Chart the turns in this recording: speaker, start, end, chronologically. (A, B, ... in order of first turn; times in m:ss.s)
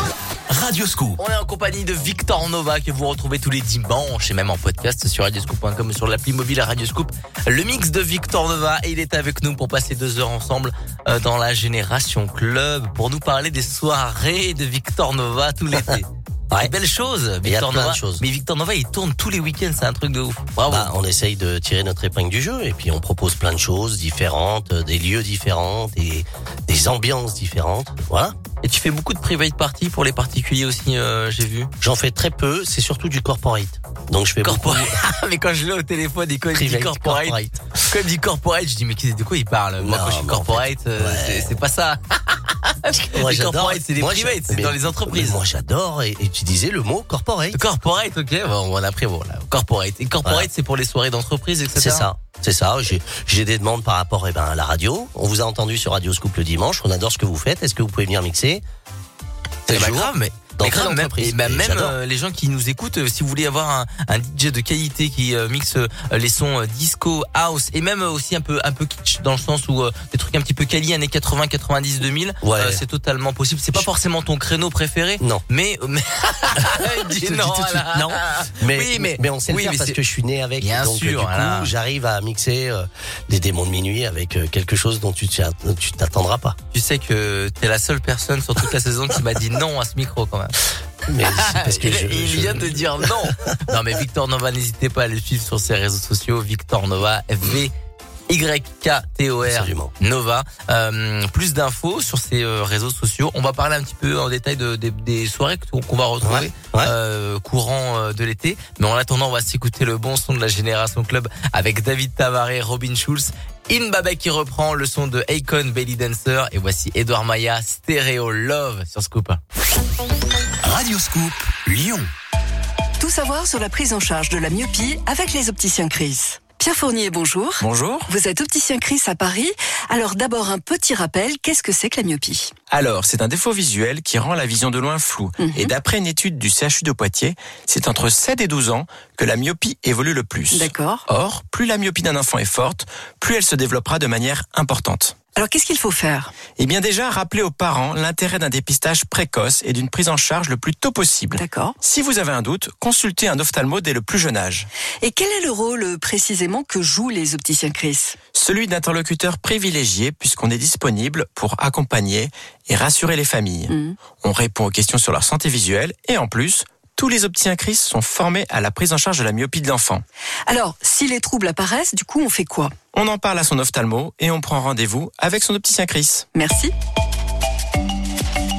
0:00.5-0:01.2 A
0:01.2-0:20.9 B
0:15.7-0:16.0 C
0:17.4-0:18.2 C
0:20.7-0:28.3 C
0:28.6-0:31.7 B
0:31.8-0:35.0 C
0:34.4-0:45.4 B
0:36.5-0:37.5 C
0:39.8-0:41.5 C
0:43.1-0:47.6 C
0:47.5-0:52.1 B
0:50.2-0:50.5 C
0:51.7-0:58.6 C
0:59.7-1:01.9 C
0:59.7-1:20.0 B
1:12.4-1:12.8 C
1:16.7-1:26.6 C
1:20.6-1:21.7 B
1:26.7-1:30.5 B
1:31.1-1:33.2 C
1:31.3-1:37.7 B
1:38.3-1:59.4 B
1:39.4-1:39.9 C
1:46.2-1:46.9 C
2:00.6-2:02.1 A
2:03.0-2:12.5 D
2:07.6-2:08.1 E
2:12.7-2:25.2 E
2:15.4-2:15.7 D
2:20.5-2:21.0 D
2:25.3-2:26.3 D
2:26.5-2:34.6 E
2:31.4-2:31.8 D
2:35.0-2:38.2 D
2:38.3-2:50.0 E
2:43.7-2:44.0 D
2:50.5-2:52.7 D
2:52.9-2:56.2 E
2:56.3-2:56.7 D